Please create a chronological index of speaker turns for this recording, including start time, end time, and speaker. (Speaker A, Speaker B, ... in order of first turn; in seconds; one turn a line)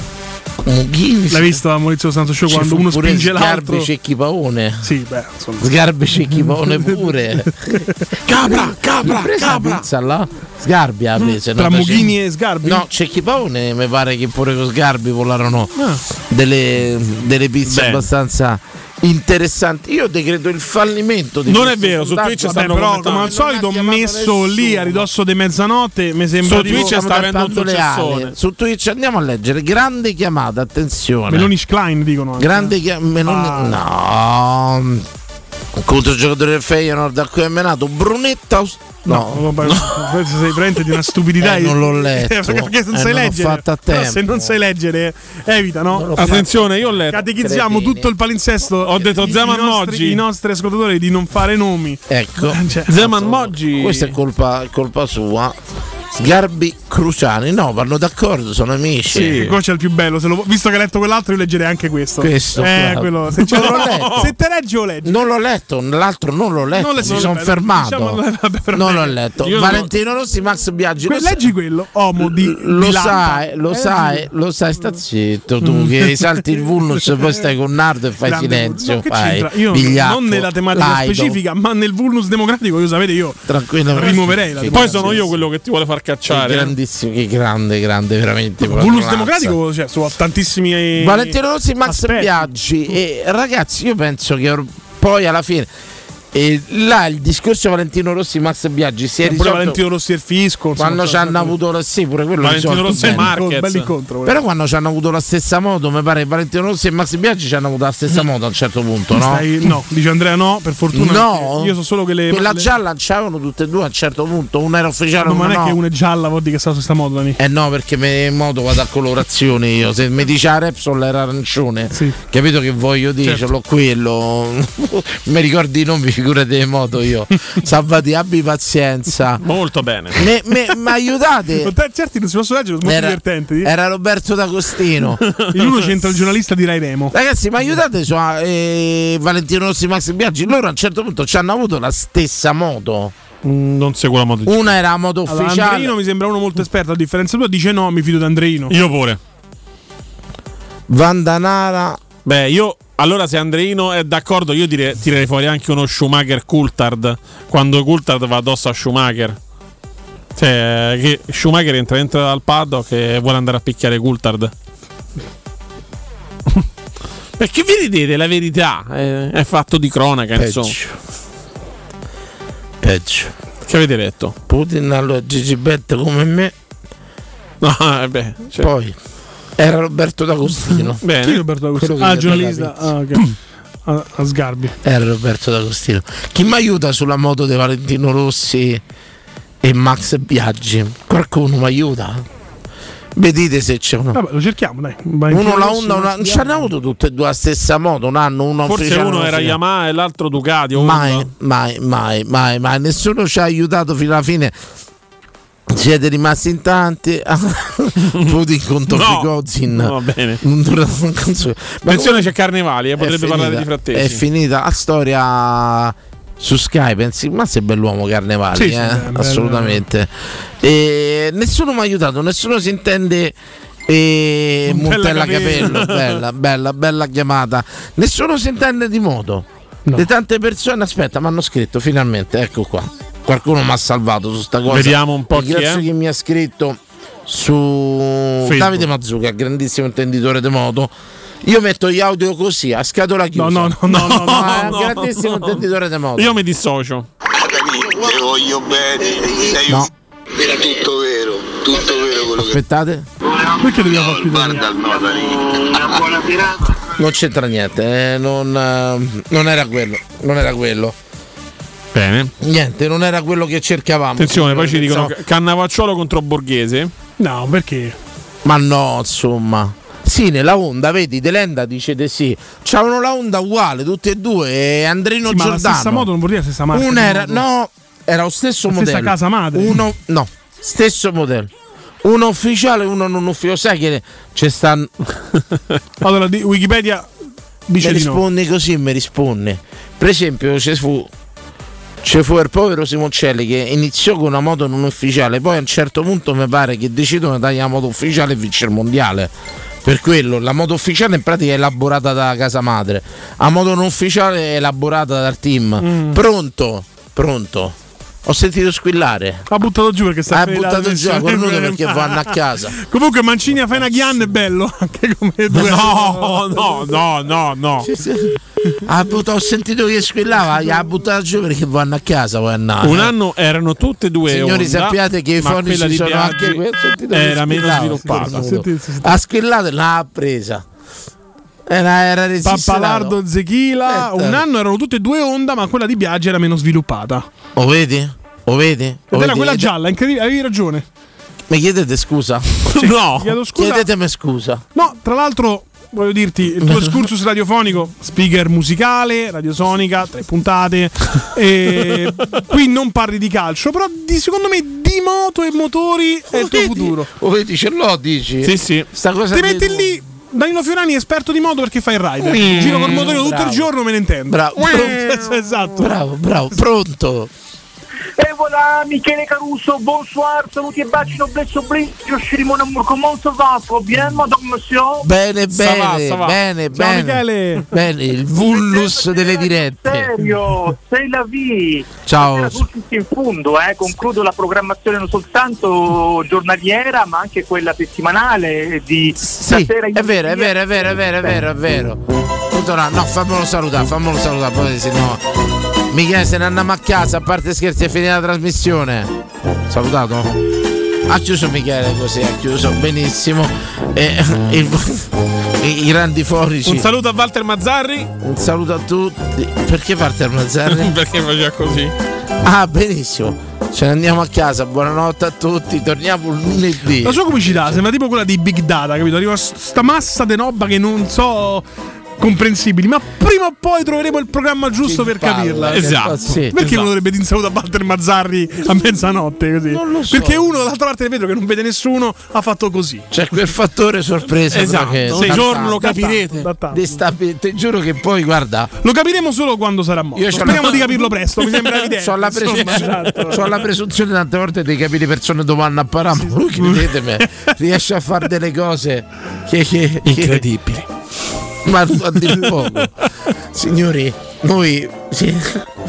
Speaker A: 0.6-1.6
Speaker B: 1.3-3.9
Speaker A: 2.5-4.9
Speaker B: 4.8-5.7
Speaker A: 5.6-15.7
Speaker B: 6.3-8.0
Speaker C: 8.3-9.8
Speaker B: 11.3-12.8
Speaker A: 16.3-25.1
Speaker C: 17.7-18.0
Speaker C: 21.5-23.3
Speaker B: 22.4-27.0
Speaker C: 26.4-28.4
Speaker A: 26.5-31.5
Speaker B: 31.3-32.7
Speaker A: 32.4-35.1
Speaker B: 33.2-33.8
Speaker A: 35.8-39.7
Speaker B: 39.1-46.4
Speaker A: 41.4-44.5
Speaker A: 45.9-48.1
Speaker C: 46.2-47.2
Speaker B: 47.1-53.0
Speaker C: 48.9-50.2
Speaker A: 52.1-55.6
Speaker C: 52.9-54.1
Speaker A: 56.1-59.4
Speaker C: 59.1-59.5
Speaker B: 59.3-65.2
Speaker A: 62.2-64.3
Speaker C: 63.5-64.3
Speaker A: 65.0-68.2
Speaker B: 66.8-69.2
Speaker A: 68.7-71.5
Speaker C: 69.4-69.9
Speaker B: 71.1-74.3
Speaker A: 72.2-81.4
Speaker B: 75.6-77.2
Speaker B: 78.2-83.4
Speaker A: 83.5-85.3
Speaker B: 83.9-85.3
Speaker C: 84.7-86.8
Speaker A: 86.3-89.6
Speaker B: 88.6-92.5
Speaker A: 91.0-95.7
Speaker A: 96.3-99.8
Speaker B: 99.2-101.5
Speaker A: 100.8-103.3
Speaker C: 102.4-103.9
Speaker B: 102.9-104.4
Speaker A: 104.2-109.5
Speaker B: 109.2-112.7
Speaker A: 110.9-111.7
Speaker A: 112.3-115.8
Speaker B: 115.2-117.4
Speaker A: 117.4-129.4
Speaker C: 129.4-130.2
Speaker A: 130.2-131.7
Speaker B: 131.6-133.7
Speaker A: 132.8-135.2
Speaker C: 135.2-136.0
Speaker B: 135.5-137.2
Speaker A: 137.1-143.1
Speaker C: 143.4-144.8
Speaker A: 144.4-145.9
Speaker B: 145.3-148.7
Speaker C: 148.7-149.2
Speaker A: 150.9-152.0
Speaker C: 152.2-159.4
Speaker C: 160.4-164.5
Speaker C: 167.4-170.8
Speaker A: 170.3-170.9
Speaker A: 172.8-173.3
Speaker C: 173.7-174.4
Speaker A: 174.5-176.5
Speaker C: 177.6-178.7
Speaker A: 178.6-179.0
Speaker A: 179.6-181.0
Speaker C: 181.0-181.4
Speaker B: 181.2-183.3
Speaker A: 181.8-182.7
Speaker B: 183.9-184.7
Speaker A: 184.8-188.8
Speaker A: 189.6-192.2
Speaker A: 193.2-194.2
Speaker B: 194.1-196.7
Speaker A: 195.3-199.6
Speaker C: 198.7-201.3
Speaker A: 200.7-204.6
Speaker A: 205.7-212.3
Speaker C: 208.9-210.4
Speaker C: 211.9-214.2
Speaker A: 213.0-223.3
Speaker B: 218.5-219.8
Speaker A: 223.9-240.9
Speaker B: 224.7-225.9
Speaker C: 234.7-235.8
Speaker C: 238.4-238.9
Speaker A: 241.4-246.3
Speaker B: 243.4-244.8
Speaker C: 243.9-245.6
Speaker C: 246.2-247.1
Speaker D: 247.3-252.6
Speaker A: 252.4-253.1
Speaker D: 253.3-256.8
Speaker B: 253.6-254.7
Speaker A: 257.0-261.0
Speaker C: 261.9-262.3
Speaker A: 262.4-265.1
Speaker C: 264.2-266.9
Speaker B: 267.2-268.0
Speaker A: 268.4-276.1
Speaker B: 275.3-277.4
Speaker A: 276.7-281.5
Speaker B: 278.7-279.8
Speaker A: 282.0-284.9
Speaker B: 286.0-287.1
Speaker B: 287.7-288.2
Speaker A: 287.8-291.1
Speaker A: 292.0-299.3
Speaker A: 299.8-309.5
Speaker B: 305.8-306.2
Speaker B: 309.5-316.7
Speaker A: 310.3-312.8
Speaker C: 315.5-317.9
Speaker A: 317.8-323.1
Speaker C: 322.8-328.5
Speaker A: 324.3-330.6
Speaker B: 328.1-329.2
Speaker A: 331.7-333.1
Speaker B: 332.4-337.3
Speaker A: 333.9-334.4
Speaker A: 337.6-339.7
Speaker B: 339.1-340.9
Speaker A: 341.5-342.8
Speaker C: 342.7-343.3
Speaker B: 342.9-343.9
Speaker A: 343.6-344.6
Speaker B: 344.8-357.1
Speaker A: 346.6-347.1
Speaker A: 356.3-359.9
Speaker C: 358.4-358.9
Speaker B: 359.3-365.9
Speaker C: 362.4-362.9
Speaker A: 362.6-363.7
Speaker A: 364.3-367.3
Speaker E: 368.2-375.1
Speaker A: 375.0-380.1
Speaker C: 375.5-376.4
Speaker B: 376.7-377.7
Speaker E: 378.4-390.9
Speaker A: 382.1-382.6
Speaker A: 389.2-395.2
Speaker A: 395.9-399.1
Speaker A: 399.7-400.3
Speaker A: 401.1-406.9
Speaker C: 406.6-408.1
Speaker A: 408.2-410.9
Speaker C: 410.7-411.9
Speaker A: 412.4-417.8
Speaker B: 417.0-421.6
Speaker B: 422.2-433.1
Speaker A: 424.8-426.7
Speaker C: 425.7-426.8
Speaker A: 429.7-430.5
Speaker A: 433.1-435.9
Speaker C: 434.5-436.5
Speaker B: 435.1-437.0
Speaker A: 436.7-438.7
Speaker B: 438.8-443.4
Speaker A: 440.1-440.9
Speaker A: 441.7-450.5
Speaker C: 442.4-443.4
Speaker B: 446.2-447.5
Speaker C: 450.1-450.9
Speaker A: 451.6-452.9
Speaker A: 453.5-455.7